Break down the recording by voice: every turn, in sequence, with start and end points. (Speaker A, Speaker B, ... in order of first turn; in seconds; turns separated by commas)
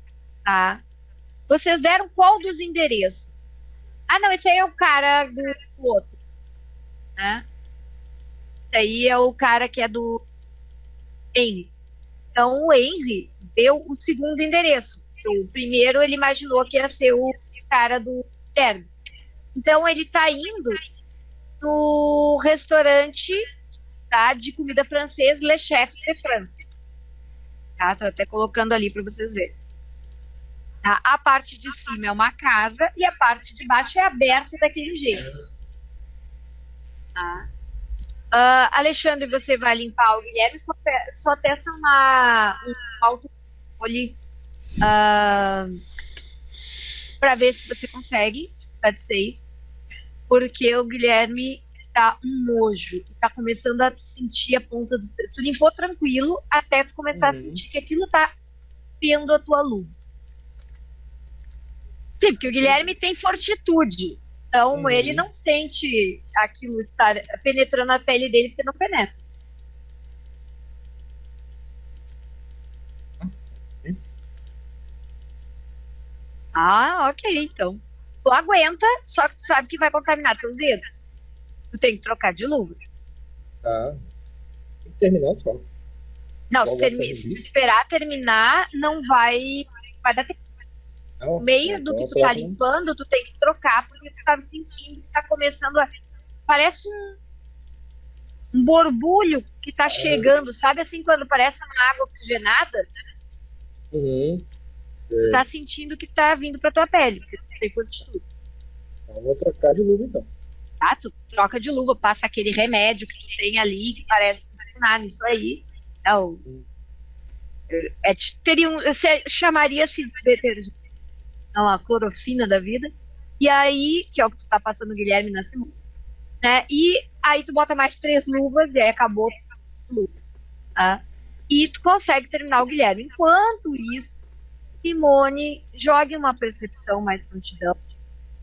Speaker A: 0.5-0.8, Speaker A: 1.5-3.3, Speaker A: 4.1-6.2, Speaker A: 7.2-7.4, Speaker A: 8.7-10.2, Speaker A: 11.3-11.7, Speaker A: 12.3-18.9, Speaker A: 19.6-20.8, Speaker A: 21.6-23.4, Speaker A: 24.1-26.6, Speaker A: 27.8-29.6, Speaker A: 30.8-35.3, Speaker A: 37.2-37.5, Speaker A: 38.3-44.2, Speaker A: 44.8-45.8, Speaker A: 47.2-49.5, Speaker A: 50.3-58.3, Speaker B: 57.1-57.6, Speaker A: 59.0-59.9, Speaker A: 62.2-69.2, Speaker B: 64.7-65.2, Speaker B: 73.2-74.0, Speaker A: 76.5-80.8, Speaker A: 81.7-82.9, Speaker B: 83.6-84.0, Speaker B: 84.8-85.7, Speaker A: 86.5-90.4, Speaker B: 86.6-87.5, Speaker B: 91.2-92.6, Speaker A: 91.4-95.9, Speaker A: 96.5-97.2, Speaker A: 98.5-102.9, Speaker B: 100.0-100.3, Speaker B: 103.9-104.4, Speaker B: 105.1-105.4, Speaker A: 105.3-108.2, Speaker B: 109.1-110.3, Speaker A: 110.8-116.4, Speaker A: 117.7-120.7, Speaker A: 121.5-125.7, Speaker A: 126.4-129.4, Speaker A: 129.9-130.1, Speaker A: 130.8-134.2, Speaker A: 134.8-137.8